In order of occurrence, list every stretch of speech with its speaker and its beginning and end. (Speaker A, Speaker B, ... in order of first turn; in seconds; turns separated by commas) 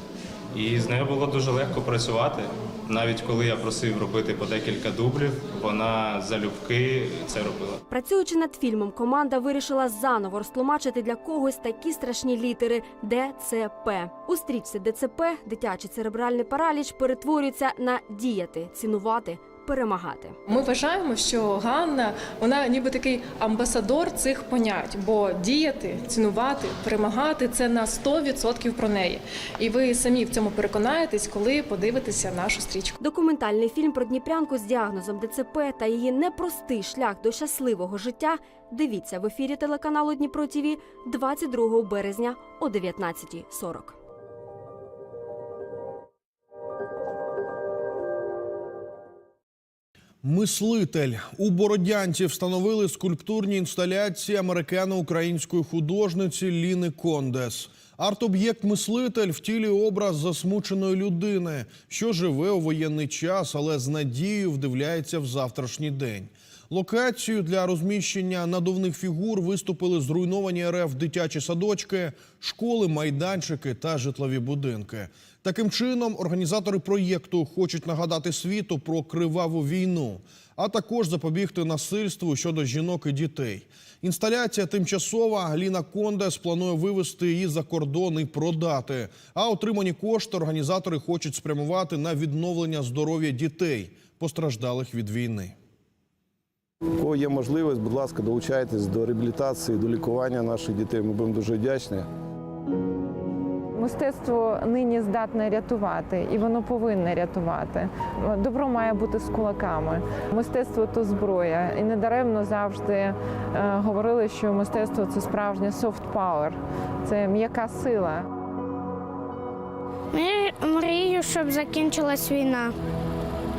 Speaker A: 0.5-7.8, Speaker B: 7.9-20.4, Speaker C: 20.5-33.0, Speaker B: 33.0-44.0, Speaker D: 50.2-95.6, Speaker E: 97.0-102.1, Speaker F: 103.8-118.3